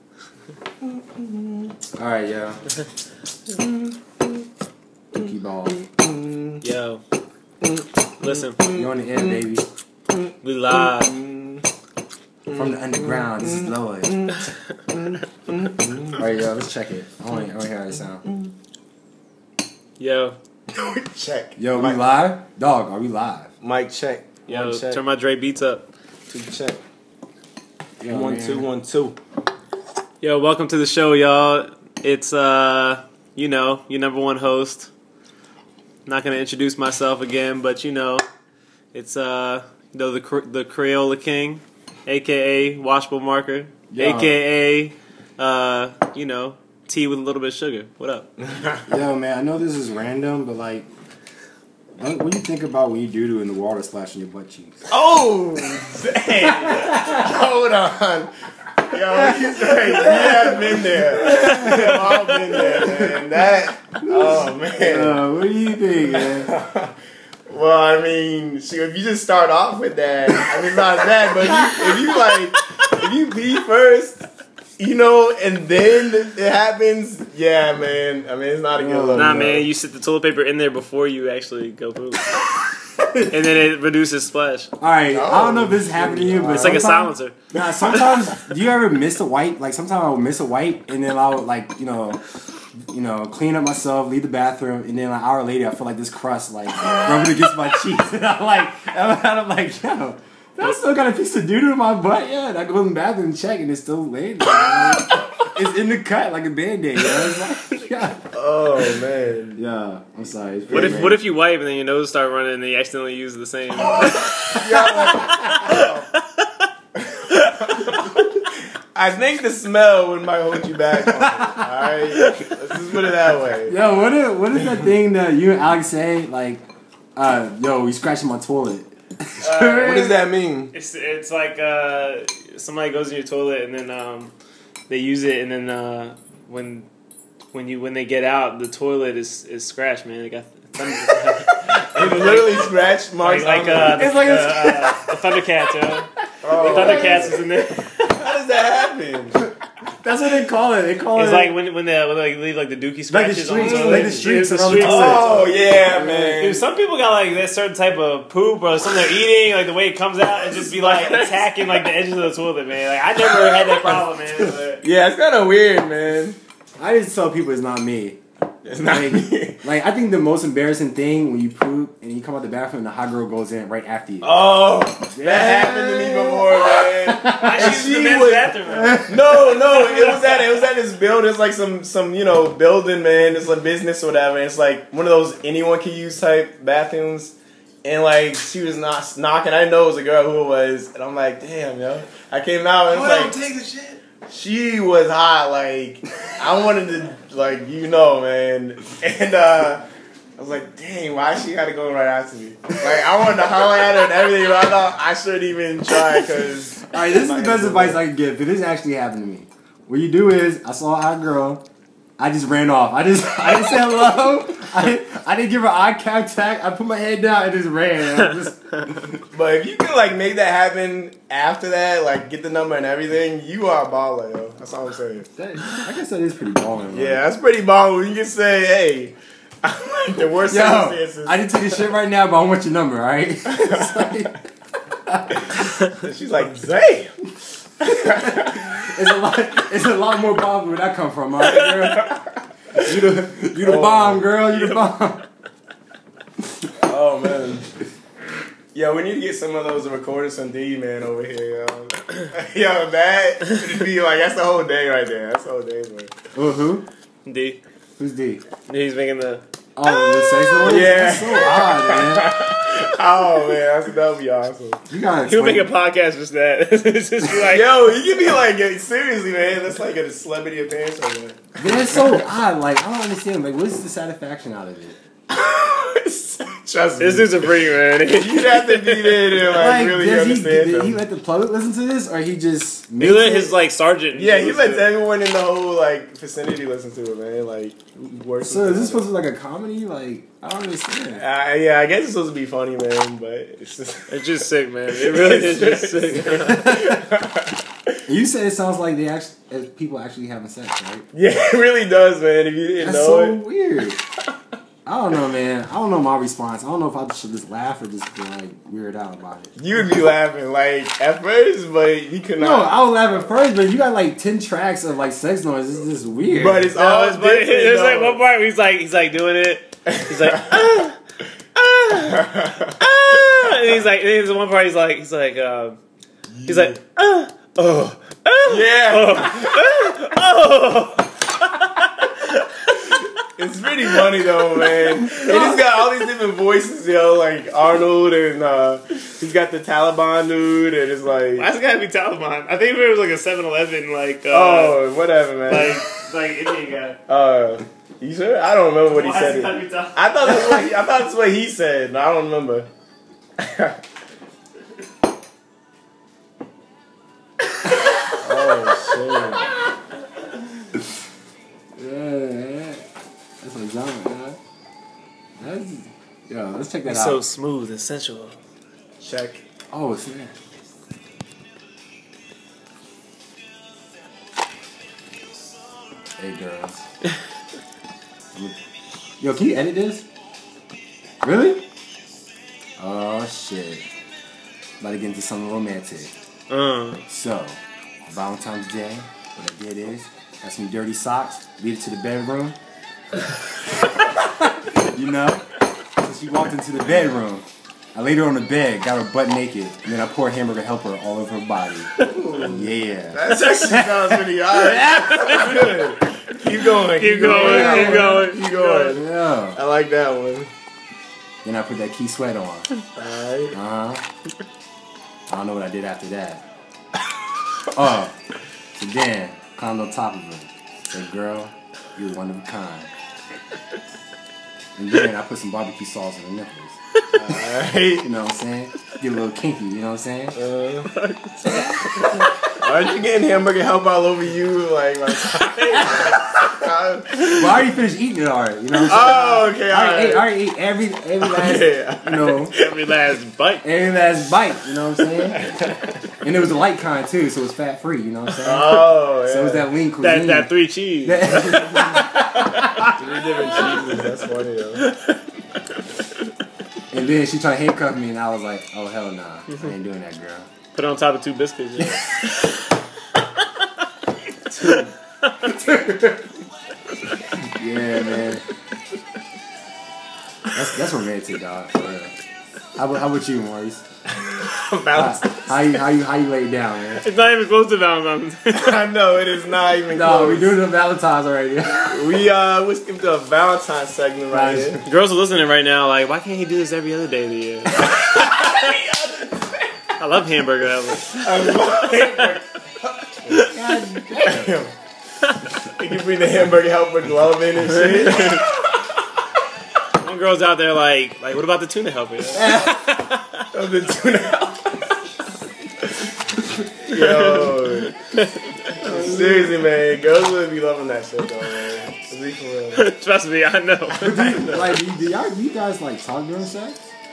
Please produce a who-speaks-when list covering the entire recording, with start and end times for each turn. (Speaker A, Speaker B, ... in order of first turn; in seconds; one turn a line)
Speaker A: 0.8-1.6
Speaker B: 1.9-2.6
Speaker A: 3.5-3.8
Speaker B: 5.1-5.8
Speaker A: 5.8-6.6
Speaker C: 6.6-7.0
Speaker C: 8.2-8.7
Speaker A: 8.6-9.3
Speaker B: 8.7-9.7
Speaker C: 10.4-11.2
Speaker A: 10.7-11.6
Speaker B: 12.5-14.3
Speaker A: 12.6-14.3
Speaker A: 14.9-16.1
Speaker B: 16.1-18.3
Speaker C: 20.0-20.4
Speaker A: 20.7-22.0
Speaker B: 21.6-23.5
Speaker A: 23.6-25.0
Speaker C: 24.5-25.9
Speaker A: 26.3-26.8
Speaker B: 28.0-28.6
Speaker A: 28.1-29.2
Speaker C: 30.2-34.9
Speaker C: 36.0-38.2
Speaker C: 38.9-48.3
Speaker B: 43.9-44.4
Speaker B: 48.9-50.9
Speaker B: 51.9-54.9
Speaker A: 54.9-58.3
Speaker B: 56.8-57.1
Speaker A: 58.9-65.2
Speaker B: 59.1-63.1
Speaker B: 64.0-66.5
Speaker A: 66.0-66.9
Speaker A: 67.5-74.2
Speaker A: 74.8-79.6
Speaker B: 78.7-79.6
Speaker C: 79.1-82.4
Speaker C: 83.3-84.7
Speaker B: 84.8-92.2
Speaker A: 85.1-86.9
Speaker C: 86.5-88.2
Speaker B: 92.9-108.2
Speaker C: 107.0-107.9
Speaker A: 108.3-109.6
Speaker B: 109.5-111.2
Speaker C: 110.7-116.7
Speaker A: 110.7-111.0
Speaker A: 113.8-116.1
Speaker B: 114.1-115.7
Speaker A: 116.9-123.7
Speaker C: 117.3-117.8
Speaker B: 121.1-121.6
Speaker B: 123.7-126.6
Speaker A: 124.5-124.9
Speaker B: 127.2-130.2
Speaker C: 129.4-130.1
Speaker A: 129.7-130.7
Speaker C: 130.7-134.3
Speaker C: 134.9-136.9
Speaker C: 137.5-148.2
Speaker A: 141.9-144.3
Speaker B: 143.9-145.2
Speaker A: 146.4-147.4
Speaker B: 146.7-147.0
Speaker A: 148.1-149.4
Speaker B: 149.4-151.6
Speaker C: 151.1-164.8
Speaker B: 153.1-155.5
Speaker A: 153.6-156.6
Speaker A: 160.4-161.8
Speaker A: 164.8-166.4
Speaker B: 166.8-168.2
Speaker A: 168.6-169.6
Speaker B: 168.8-174.4
Speaker A: 174.2-193.4
Speaker B: 175.1-177.9
Speaker C: 177.3-180.5
Speaker B: 178.7-179.4
Speaker B: 192.9-194.0
Speaker A: 194.3-199.8
Speaker A: 200.4-208.0
Speaker B: 206.9-211.6
Speaker B: 212.2-219.2
Speaker A: 219.3-225.3
Speaker B: 225.3-227.2
Speaker A: 226.9-231.6
Speaker B: 230.5-234.4
Speaker A: 233.5-234.1
Speaker B: 235.1-235.4
Speaker A: 235.8-237.1
Speaker A: 237.8-238.7
Speaker B: 238.1-245.2
Speaker A: 243.6-244.6
Speaker A: 246.8-247.7
Speaker A: 248.7-256.1
Speaker B: 256.3-256.9
Speaker C: 257.2-257.6
Speaker B: 258.0-258.4
Speaker C: 258.7-259.4
Speaker B: 259.8-262.4
Speaker A: 260.6-264.8
Speaker B: 264.9-265.7
Speaker C: 265.2-267.7
Speaker A: 267.4-272.2
Speaker B: 271.6-274.9
Speaker A: 275.3-281.0
Speaker C: 277.0-279.3
Speaker B: 279.5-283.5
Speaker C: 283.0-284.9
Speaker A: 284.1-289.1
Speaker B: 288.4-291.2
Speaker A: 291.1-294.3
Speaker C: 294.1-296.8
Speaker A: 294.9-297.5
Speaker B: 296.6-297.1
Speaker B: 298.1-301.1
Speaker A: 301.1-303.4
Speaker B: 302.8-304.0
Speaker B: 304.9-309.5
Speaker A: 309.6-312.8
Speaker B: 312.4-316.7
Speaker A: 316.3-318.2
Speaker C: 316.7-321.0
Speaker A: 320.1-320.6
Speaker C: 321.6-325.8
Speaker A: 321.9-322.7
Speaker C: 326.4-333.1
Speaker A: 328.4-329.9
Speaker A: 333.2-341.5
Speaker C: 334.9-335.6
Speaker C: 341.4-344.9
Speaker A: 344.3-345.8
Speaker C: 345.4-347.0
Speaker A: 347.1-352.7
Speaker C: 348.9-350.6
Speaker A: 353.4-353.8
Speaker A: 358.2-359.5
Speaker B: 361.8-362.8
Speaker B: 363.4-364.4
Speaker B: 365.4-367.2
Speaker C: 366.8-368.4
Speaker A: 369.0-369.4
Speaker B: 369.7-370.3
Speaker B: 376.2-376.8
Speaker B: 379.2-380.1
Speaker B: 381.2-381.6
Speaker B: 382.8-383.9
Speaker B: 384.8-386.1
Speaker C: 386.5-387.0
Speaker B: 387.1-392.6
Speaker B: 393.9-405.5
Speaker A: 402.0-410.5
Speaker C: 405.1-405.7
Speaker C: 406.7-408.9
Speaker B: 407.2-409.6
Speaker B: 411.4-412.7
Speaker A: 412.9-413.6
Speaker B: 413.5-414.0
Speaker B: 415.3-416.4
Speaker B: 417.7-418.1
Speaker B: 418.7-422.9
Speaker B: 424.8-426.8
Speaker A: 427.1-428.1
Speaker B: 428.0-430.4
Speaker A: 430.3-430.9
Speaker C: 430.8-432.6
Speaker A: 432.6-437.5
Speaker C: 435.7-435.9
Speaker B: 437.2-442.6
Speaker A: 438.7-440.3
Speaker A: 441.2-442.7
Speaker C: 442.5-443.6
Speaker B: 443.6-445.5
Speaker A: 445.5-445.9
Speaker B: 446.2-453.0
Speaker A: 448.4-449.7
Speaker C: 450.0-454.0
Speaker A: 453.0-454.8
Speaker C: 454.8-455.2
Speaker B: 456.9-460.5
Speaker C: 460.7-462.7
Speaker B: 461.8-462.1
Speaker B: 464.5-464.9
Speaker C: 464.6-465.6
Speaker B: 465.4-466.2
Speaker B: 467.5-468.4
Speaker B: 470.5-472.1
Speaker B: 472.7-473.8
Speaker A: 474.3-475.8
Speaker B: 474.9-477.0
Speaker C: 476.9-478.8
Speaker A: 478.5-480.6
Speaker B: 479.9-482.0
Speaker A: 481.9-484.8
Speaker B: 484.3-484.8
Speaker C: 484.8-488.8
Speaker A: 487.9-489.5
Speaker C: 490.0-492.4
Speaker A: 491.1-493.4
Speaker C: 493.3-493.8
Speaker B: 493.3-494.6
Speaker A: 494.2-494.7
Speaker A: 495.6-498.6
Speaker C: 498.0-498.4
Speaker C: 499.9-503.5
Speaker B: 502.3-503.0
Speaker A: 503.5-505.0
Speaker A: 506.6-507.9
Speaker C: 506.9-509.0
Speaker A: 508.8-512.9
Speaker C: 512.7-514.5
Speaker B: 513.9-516.9
Speaker A: 514.1-514.7